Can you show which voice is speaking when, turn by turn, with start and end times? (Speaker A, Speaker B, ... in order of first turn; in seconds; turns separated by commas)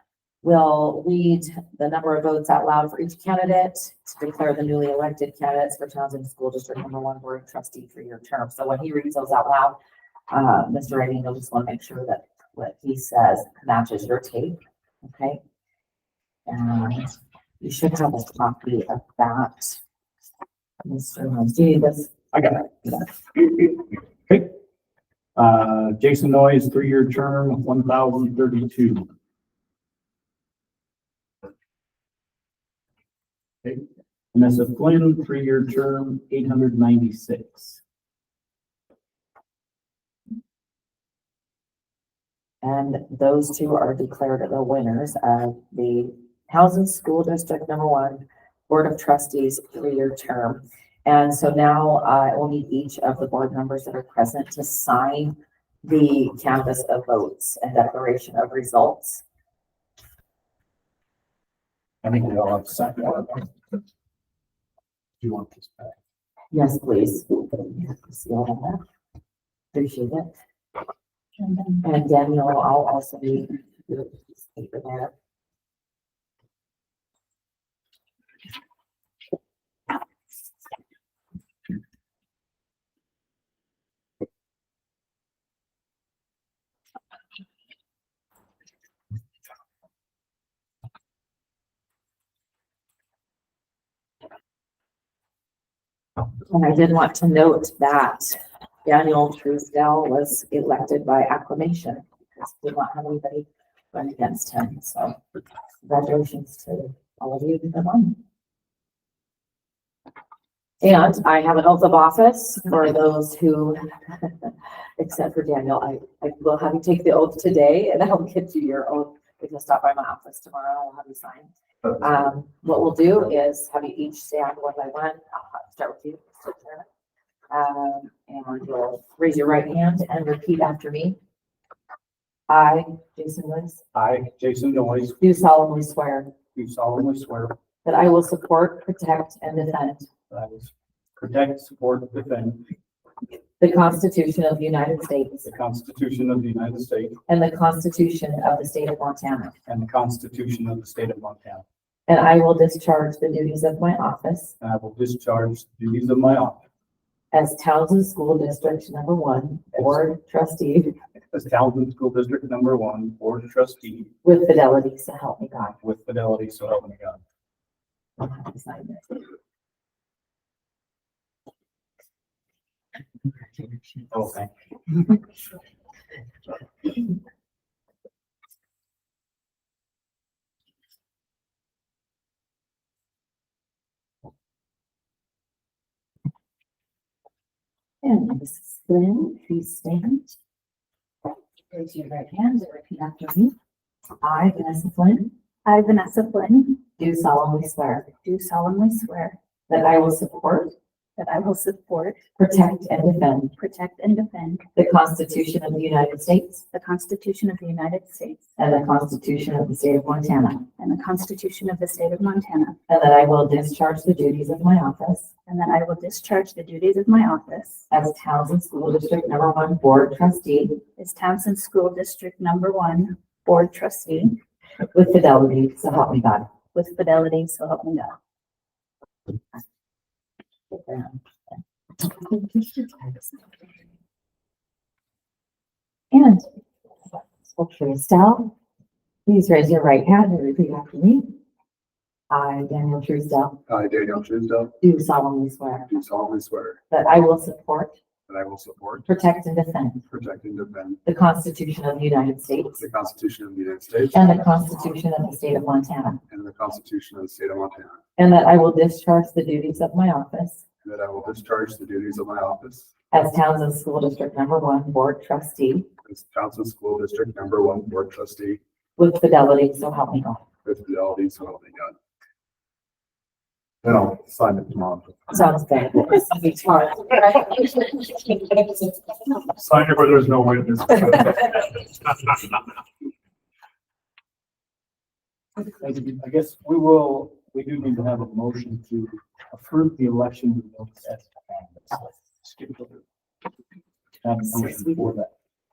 Speaker A: 0.4-9.8, Speaker A: 10.3-15.4, Speaker A: 16.5-19.8, Speaker A: 20.8-22.1, Speaker B: 22.3-24.5, Speaker B: 25.4-29.1, Speaker B: 33.6-37.8, Speaker A: 42.6-59.2, Speaker B: 62.0-63.5, Speaker B: 65.2-65.9, Speaker A: 66.5-68.8, Speaker A: 69.7-70.3, Speaker C: 71.4-71.8, Speaker A: 71.8-75.1, Speaker A: 96.5-105.2, Speaker A: 105.8-108.2, Speaker A: 110.8-126.8, Speaker A: 127.5-131.2, Speaker A: 132.5-133.8, Speaker B: 133.9-135.2, Speaker A: 135.2-136.3, Speaker B: 136.5-137.6, Speaker A: 137.8-140.1, Speaker B: 140.3-142.7, Speaker A: 143.6-145.5, Speaker B: 145.4-147.2, Speaker A: 147.3-149.6, Speaker B: 149.7-151.6, Speaker A: 152.1-154.5, Speaker B: 154.6-156.6, Speaker A: 157.3-160.9, Speaker B: 161.3-164.1, Speaker A: 164.2-165.8, Speaker B: 165.8-167.2, Speaker A: 168.2-169.2, Speaker A: 173.4-174.1, Speaker B: 174.1-174.5, Speaker A: 188.0-190.4, Speaker A: 191.7-193.5, Speaker A: 194.2-195.3, Speaker C: 195.6-196.8, Speaker A: 197.0-198.1, Speaker C: 198.2-199.4, Speaker A: 199.7-200.7, Speaker C: 201.2-202.2, Speaker A: 202.4-203.5, Speaker C: 203.6-204.6, Speaker A: 204.8-206.6, Speaker C: 206.7-208.4, Speaker A: 208.6-210.7, Speaker C: 210.8-212.8, Speaker A: 212.9-215.3, Speaker C: 215.5-217.9, Speaker A: 217.9-220.8, Speaker C: 221.0-224.4, Speaker A: 224.9-226.5, Speaker C: 226.7-228.2, Speaker A: 230.7-233.4, Speaker A: 236.1-236.4, Speaker A: 237.5-238.5, Speaker A: 239.2-241.3, Speaker A: 242.3-243.6, Speaker D: 243.7-244.7, Speaker A: 244.8-245.9, Speaker D: 245.9-246.8, Speaker A: 246.9-248.0, Speaker D: 248.3-249.1, Speaker A: 249.1-250.0, Speaker D: 250.1-251.0, Speaker A: 251.0-252.8, Speaker D: 252.8-254.2, Speaker A: 254.1-256.2, Speaker D: 256.3-258.0, Speaker A: 258.2-260.6, Speaker D: 260.8-262.9, Speaker A: 263.1-265.9, Speaker D: 266.0-268.6, Speaker A: 269.0-270.4, Speaker D: 270.6-271.9, Speaker D: 273.8-275.2, Speaker A: 275.3-278.3, Speaker D: 279.6-282.1, Speaker B: 285.8-293.0, Speaker B: 294.2-295.3, Speaker A: 294.5-295.0